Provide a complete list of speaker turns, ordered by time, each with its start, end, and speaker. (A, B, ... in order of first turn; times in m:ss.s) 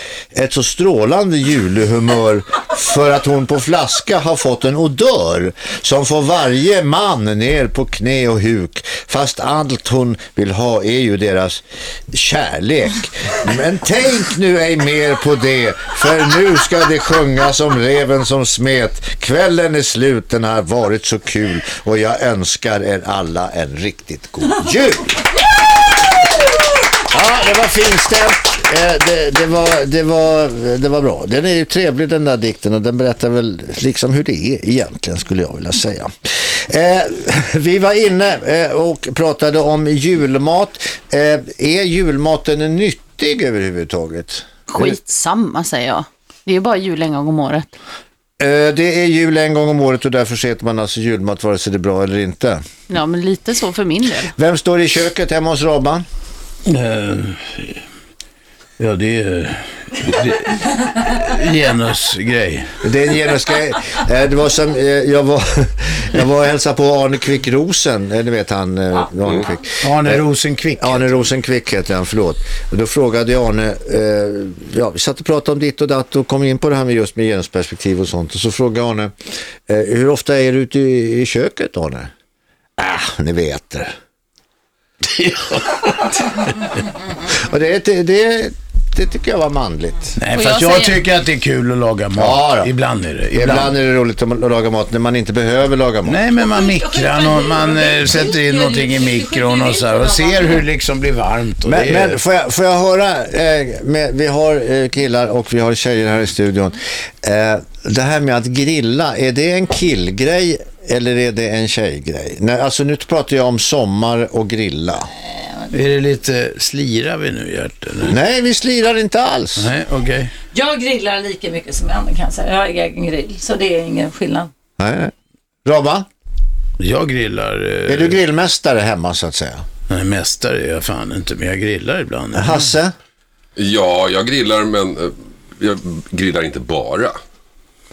0:00.3-0:25.2 A
0:27.0-0:45.0 A
0:44.7-0:47.7 B
0:48.4-0:52.6 A
0:52.9-0:54.3 B
0:54.4-0:56.0 A
0:56.6-0:57.8 C
0:58.8-1:02.7 C
1:02.8-1:10.2 A
1:09.8-1:11.2 C
1:10.8-1:19.1 A
1:19.7-1:22.1 A
1:22.8-1:23.9 A
1:25.2-1:25.7 C
1:27.4-1:30.2 A
1:30.2-1:33.7 C
1:30.3-1:31.0 B
1:32.2-1:32.7 A
1:33.3-1:36.2 A
1:36.0-1:42.2 C
1:36.3-1:40.6 D
1:41.6-1:55.1 A
1:55.7-1:58.2 C
1:58.0-1:59.7 A
1:59.6-2:00.3 C
2:00.5-2:04.5 D
2:04.8-2:05.1 A
2:05.6-2:06.1 A
2:06.8-2:08.2 C
2:07.9-2:09.6 A
2:09.9-2:12.7 C
2:12.3-2:12.9 A
2:13.6-2:17.2 E